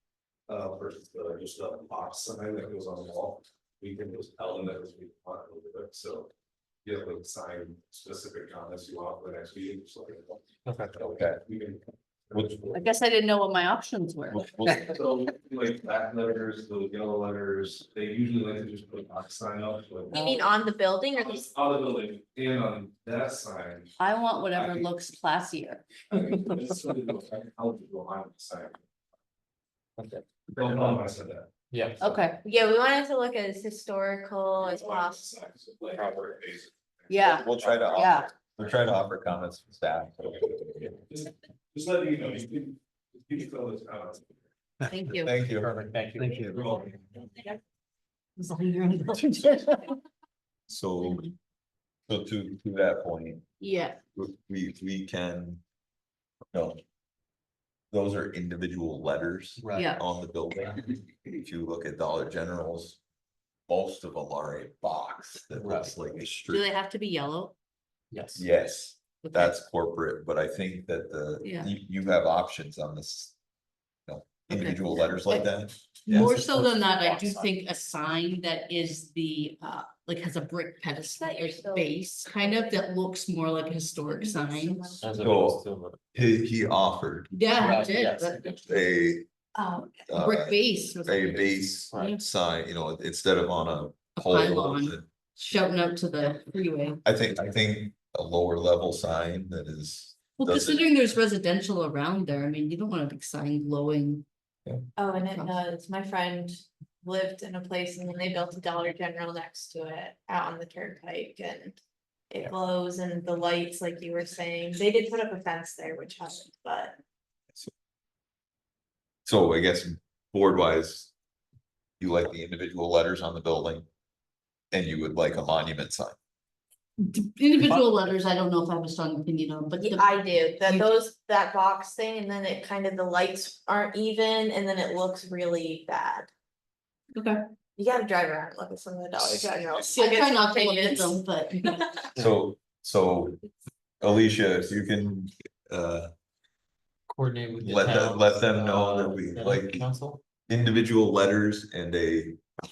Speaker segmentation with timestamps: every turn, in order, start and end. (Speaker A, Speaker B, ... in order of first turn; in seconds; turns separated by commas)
Speaker A: 0.5-6.3, Speaker A: 6.8-10.4, Speaker B: 10.7-11.0, Speaker C: 11.0-11.4, Speaker A: 11.3-12.8, Speaker C: 12.3-12.6, Speaker D: 12.7-14.8, Speaker C: 14.3-15.0, Speaker A: 14.8-20.4, Speaker E: 20.1-21.5, Speaker A: 21.1-23.9, Speaker D: 24.0-26.6, Speaker A: 24.5-24.9, Speaker A: 26.1-28.8, Speaker B: 30.0-30.9, Speaker A: 30.6-31.5, Speaker B: 31.7-32.1, Speaker D: 32.0-32.4, Speaker E: 32.4-35.3, Speaker A: 34.6-37.9, Speaker D: 37.1-38.3, Speaker C: 37.3-41.0, Speaker A: 41.1-44.4, Speaker D: 44.9-45.3, Speaker C: 45.2-45.7, Speaker B: 45.5-46.5, Speaker A: 46.4-47.3, Speaker D: 48.4-50.0, Speaker C: 50.7-51.3, Speaker D: 51.0-51.3, Speaker C: 52.1-53.5, Speaker D: 53.6-54.0, Speaker C: 54.1-55.6, Speaker C: 56.5-56.8, Speaker C: 57.9-63.0, Speaker B: 59.6-59.9, Speaker D: 59.8-60.0, Speaker C: 63.7-66.7, Speaker B: 65.5-66.0, Speaker D: 66.5-67.5, Speaker B: 68.1-68.5, Speaker C: 68.4-73.3, Speaker D: 69.2-69.5, Speaker D: 71.4-71.7, Speaker C: 74.1-76.5, Speaker D: 74.5-75.5, Speaker D: 76.1-85.0, Speaker B: 76.4-77.5, Speaker E: 81.1-82.8, Speaker E: 84.1-85.1, Speaker B: 85.0-86.0, Speaker C: 85.2-87.3, Speaker D: 87.3-88.5, Speaker B: 87.6-88.6, Speaker C: 88.6-89.3, Speaker E: 89.5-90.0, Speaker C: 90.1-95.1, Speaker D: 90.1-92.1, Speaker B: 91.9-92.2, Speaker D: 94.2-97.0, Speaker C: 97.0-100.8, Speaker D: 100.4-104.2, Speaker E: 105.0-111.8, Speaker D: 105.2-105.6, Speaker E: 112.3-117.0, Speaker C: 119.3-121.1, Speaker C: 122.0-123.9, Speaker C: 124.7-126.2, Speaker D: 127.0-130.9, Speaker E: 129.8-136.3, Speaker D: 137.2-137.4, Speaker E: 137.8-142.0, Speaker D: 139.8-141.8, Speaker C: 142.2-143.4, Speaker C: 144.0-146.1, Speaker B: 147.1-150.2, Speaker C: 147.6-149.9, Speaker C: 150.5-152.4